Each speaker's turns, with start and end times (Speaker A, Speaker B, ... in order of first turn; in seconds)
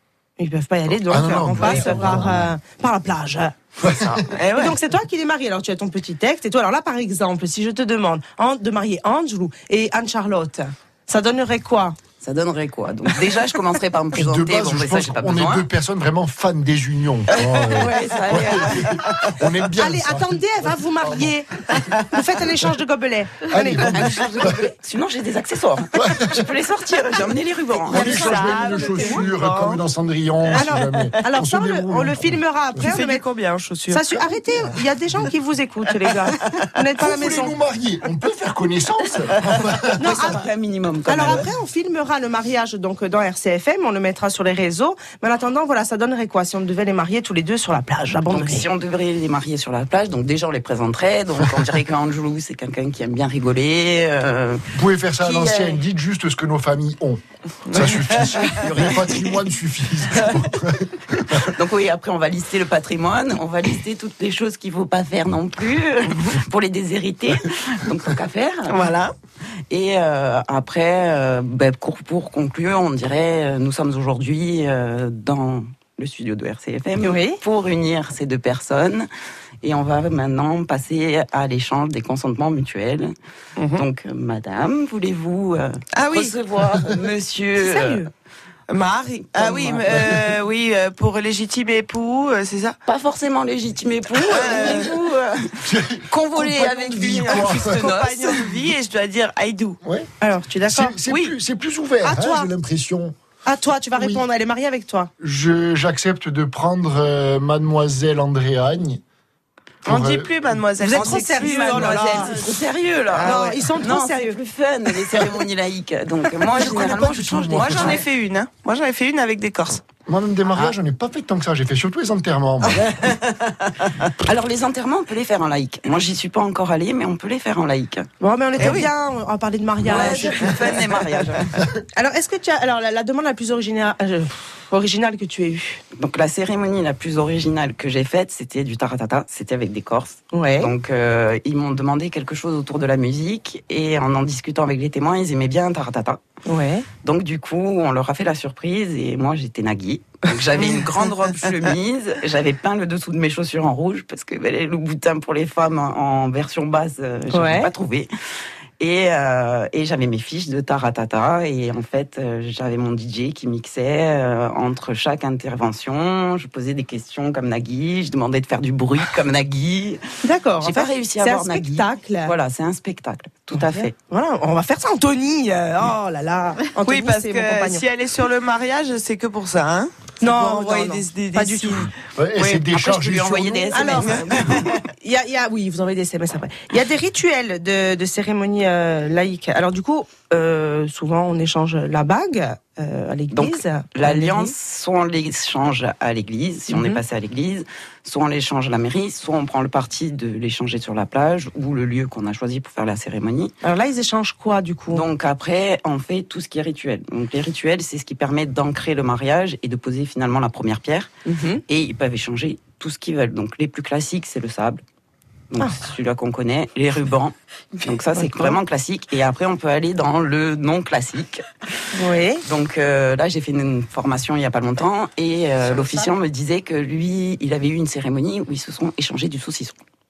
Speaker A: 0.4-3.5, 4.5-12.0, 19.8-24.1, 28.7-29.2, 30.5-33.2, 33.9-37.5, 40.0-40.4, 41.1-48.7, 77.0-77.4, 87.6-88.1, 100.2-101.0, 102.0-102.5, 103.4-105.1, 110.8-112.4, 113.2-114.4, 128.2-130.6, 131.9-135.8, 140.3-140.7, 146.4-146.8, 157.3-157.7, 170.2-172.3, 173.5-177.8, 180.2-181.9, 183.7-184.2, 185.0-194.5, 196.7-197.0, 203.6-205.0, 211.2-211.6, 218.2-218.6, 221.9-222.4
Speaker B: 0.9-2.5, 3.8-4.2, 14.1-21.9, 23.5-24.7, 25.9-26.5, 27.9-32.8, 37.0-40.2, 54.7-61.4, 95.6-97.9, 99.8-100.1, 100.6-103.2, 103.9-104.2, 105.2-109.0, 109.8-110.6, 116.5-118.0, 120.0-123.0, 182.1-184.6
Speaker C: 4.2-4.7, 27.9-29.8, 32.8-34.0, 57.7-58.0, 68.7-69.1, 83.6-83.8, 86.0-86.3, 88.7-92.8, 94.2-94.9, 96.5-99.8, 101.1-101.3, 109.8-112.5, 113.2-113.5, 117.5-119.8, 128.6-128.9, 176.8-182.7
Speaker D: 12.2-15.7, 17.3-19.0, 23.9-28.5, 39.9-41.5, 48.3-54.7, 55.2-55.8, 61.4-68.9, 69.7-79.1, 79.6-83.1, 83.7-88.0, 89.3-90.2, 92.8-98.5, 111.6-118.0, 124.2-128.1, 129.8-131.6, 136.0-146.2, 147.0-158.1, 158.8-170.0, 170.6-173.9, 182.7-184.8, 193.3-203.5, 204.9-211.1, 211.7-214.8, 215.5-221.4, 222.4-229.8